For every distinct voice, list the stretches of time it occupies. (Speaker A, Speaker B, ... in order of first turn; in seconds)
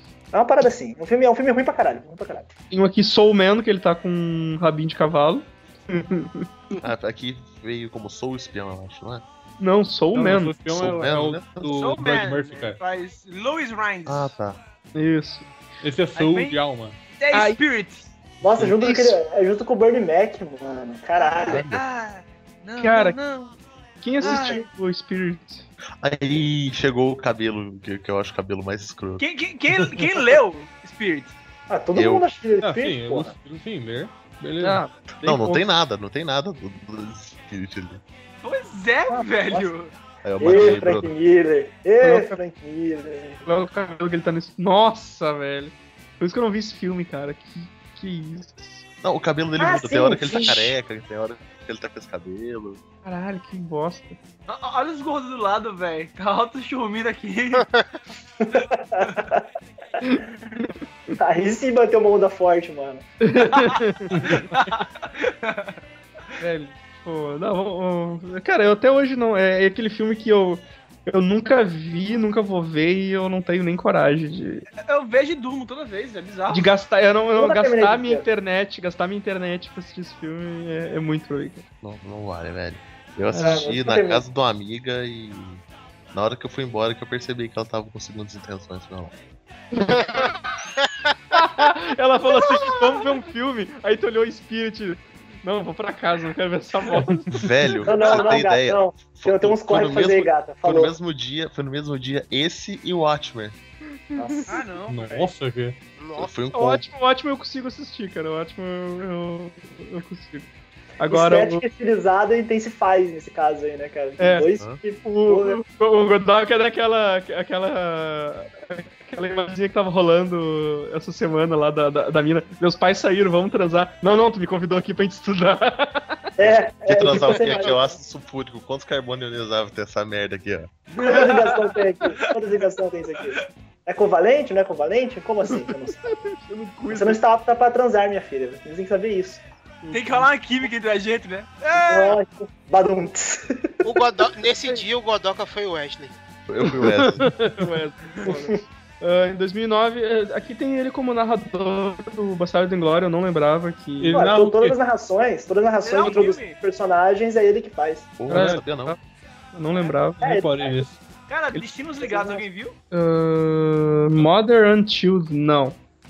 Speaker A: 0.3-2.5, 18.4-21.7, 24.2-24.6, 31.7-33.4, 39.1-39.7, 40.4-43.4, 49.6-50.8, 58.4-59.4, 61.2-63.1, 77.4-78.2, 83.4-84.2, 97.9-101.0, 104.2-104.7, 111.1-115.6, 126.4-128.0, 131.0-136.1, 136.9-139.4, 141.8-143.7, 154.1-158.2, 160.2-160.8, 162.0-162.4
Speaker B: 2.7-6.5, 9.6-10.6, 14.9-15.5, 17.3-17.6, 18.8-19.1, 22.8-23.2, 24.0-25.7, 34.6-35.7, 42.0-42.4, 43.5-48.9, 53.0-54.2, 60.0-60.7, 63.2-64.5, 66.4-74.7, 76.5-81.7, 83.3-83.7, 89.8-90.3, 91.3-97.3, 104.1-104.6, 106.5-110.5, 111.0-111.6, 114.2-114.5, 115.0-126.2, 135.5-137.2, 139.8-140.3, 147.3-154.2, 158.3-159.0, 159.5-160.2, 162.9-165.8
Speaker C: 6.8-9.2, 10.7-12.0, 14.1-14.6, 21.5-21.8, 26.0-29.2, 31.9-32.3, 35.1-38.0, 40.2-41.1, 49.0-52.8, 81.8-89.1, 97.3-103.6, 106.2-106.9, 126.4-130.7, 146.5-147.3, 158.2-159.0
Speaker D: 10.1-12.8, 15.8-17.0, 32.6-34.8, 64.1-64.5, 104.8-105.8, 154.0-154.8, 158.3-158.6, 160.2-161.0
Speaker E: 11.7-14.3, 16.1-16.6, 17.2-18.1, 21.5-23.5, 24.2-24.6, 29.2-31.3, 38.4-39.9, 54.5-57.6, 64.5-65.8, 74.8-76.7, 104.5-105.3, 131.0-131.8, 139.9-142.2, 155.8-156.6, 161.3-162.8
Speaker F: 57.6-57.9, 90.0-90.3, 106.0-106.3, 143.8-146.2